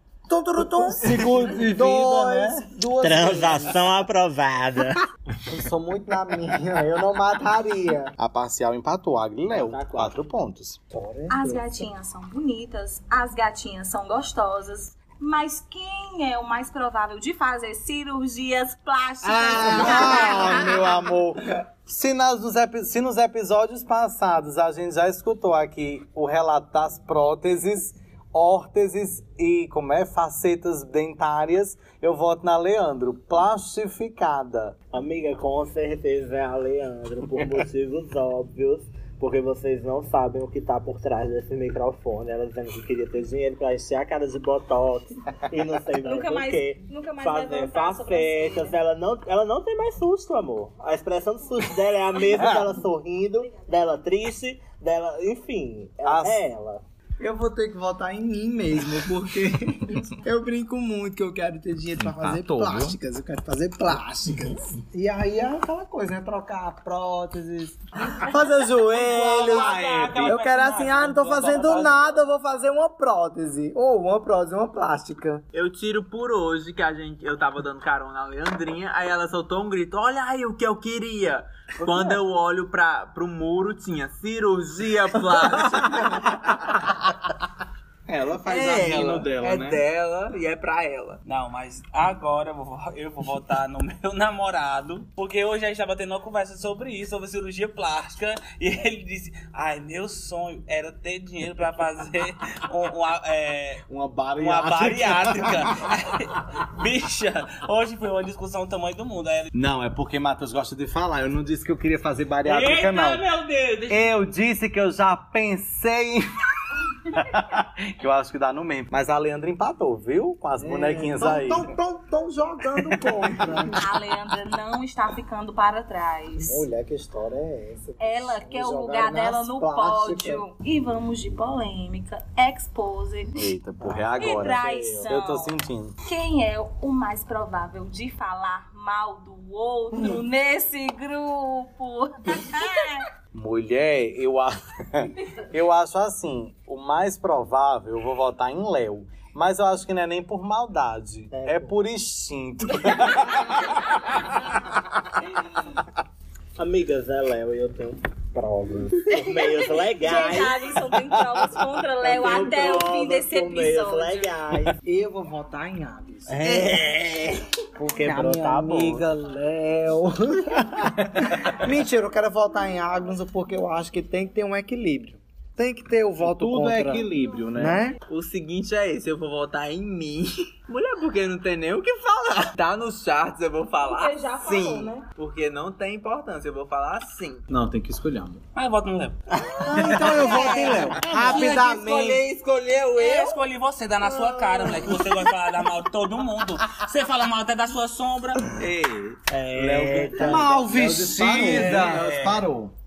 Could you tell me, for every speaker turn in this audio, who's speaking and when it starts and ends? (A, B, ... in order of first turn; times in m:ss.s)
0:00.3-0:03.8 A
0:01.0-0:02.7 B
0:03.0-0:05.0 C
0:05.5-0:08.1 A
0:08.2-0:10.8 B
0:09.5-0:10.2 C
0:10.9-0:11.9 A
0:11.3-0:20.9 D
0:19.2-0:34.8 B
0:19.5-0:20.4 A
0:34.9-0:56.8 C
0:46.0-0:48.8 D
0:56.0-0:56.4 B
0:57.2-1:15.4 A
1:02.0-1:03.0 B
1:08.9-1:10.4 B
1:09.1-1:12.1 E
1:15.5-1:26.7 F
1:28.1-1:29.8 B
1:28.4-1:31.2 F
1:31.2-1:43.8 E
1:43.9-1:45.9 B
1:44.4-1:49.5 E
1:49.5-1:53.2 B
1:52.4-1:54.1 E
1:53.9-1:56.3 B
1:57.0-2:01.7 B
2:00.6-2:03.8 A
2:02.9-2:03.3 B
2:03.8-2:06.6 D
2:06.5-2:10.4 A
2:08.0-2:13.5 D
2:13.4-2:16.0 B
2:13.9-2:14.1 C
2:14.2-2:23.1 D
2:14.3-2:14.8 A
2:23.3-2:33.8 B
2:31.3-2:31.8 C
2:32.9-2:33.3 D
2:36.6-2:40.7 C
2:39.1-2:44.4 D
2:42.0-2:44.8 C
2:44.8-2:46.8 A
2:46.3-2:49.1 C
2:47.8-2:58.0 A
2:56.2-2:57.8 B
2:58.1-3:07.5 F
3:03.8-3:05.1 D
3:07.5-3:08.4 B
3:08.6-3:09.2 E
3:09.3-3:10.3 C
3:09.6-3:12.2 A
3:09.8-3:13.4 F
3:10.2-3:11.0 D
3:11.0-3:11.5 B
3:13.0-3:18.5 E
3:14.1-3:14.7 D
3:18.6-3:19.2 F
3:19.3-3:21.8 C
3:19.6-3:22.7 B
3:20.2-3:22.0 A
3:21.2-3:22.4 F
3:21.2-3:22.4 E